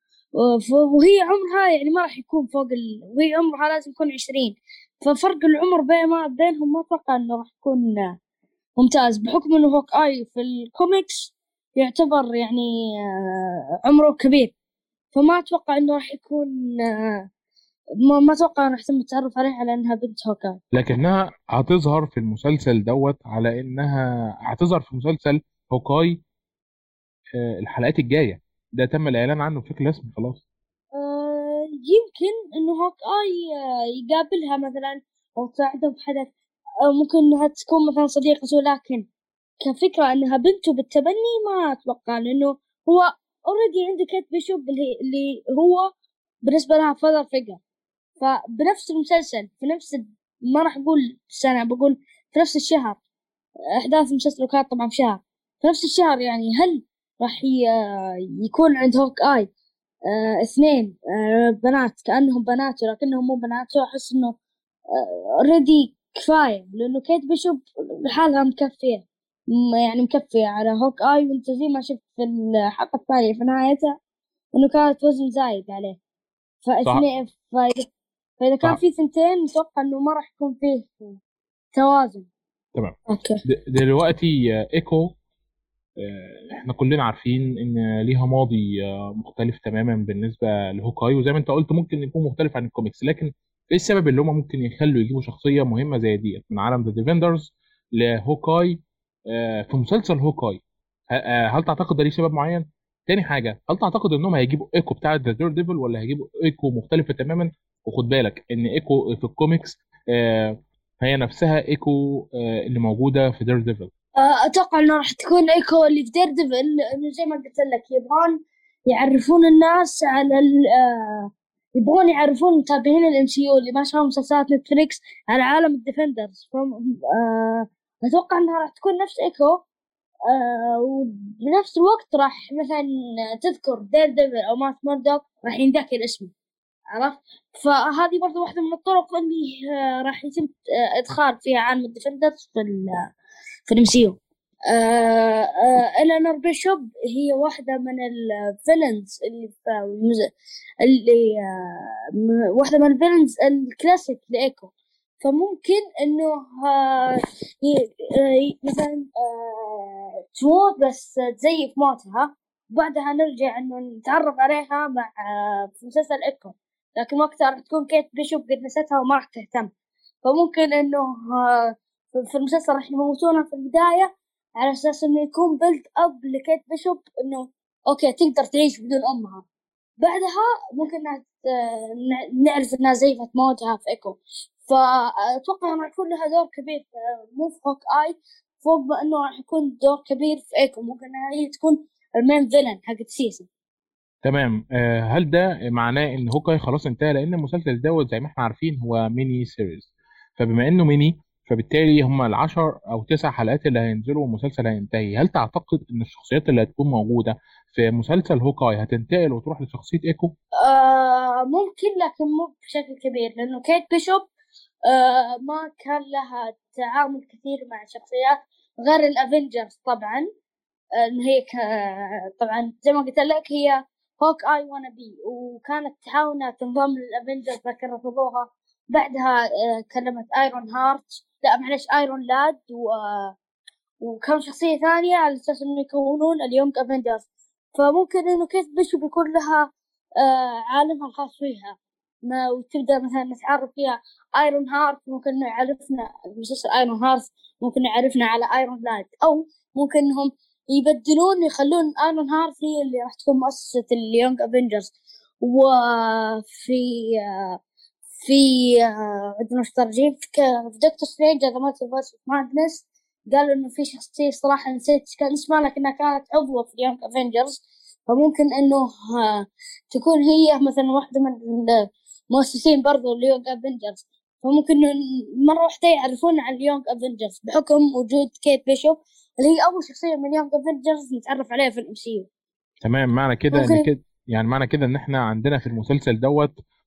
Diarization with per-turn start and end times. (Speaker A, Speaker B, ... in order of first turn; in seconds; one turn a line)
Speaker A: 0.3-8.2
Speaker A: 8.8-14.5
Speaker A: 15.1-17.3
Speaker A: 18.1-20.6
Speaker B: 20.7-26.2
Speaker B: 27.4-30.4
Speaker A: 30.9-39.1
Speaker A: 39.6-45.9
Speaker A: 46.4-47.6
Speaker A: 48.2-53.0
Speaker A: 53.7-59.5
Speaker A: 60.1-64.4
Speaker A: 64.9-74.0
Speaker A: 74.5-76.0
Speaker A: 76.6-77.9
Speaker A: 78.4-81.2
Speaker A: 81.7-82.3
Speaker B: 82.7-85.1
Speaker A: 83.1-83.4
Speaker B: 86.0-113.9
Speaker A: 114.2-129.6
Speaker A: 130.3-136.3
Speaker A: 136.9-143.1
Speaker A: 143.7-144.2
Speaker A: 144.7-169.7
Speaker A: 170.2-179.4
Speaker A: 180.0-193.5
Speaker B: 194.2-210.3
Speaker A: 210.6-214.3
Speaker A: 214.9-220.3
Speaker A: 221.0-233.3
Speaker A: 234.0-257.6
Speaker A: 258.2-282.3
Speaker B: 282.8-286.5
Speaker A: 283.5-283.9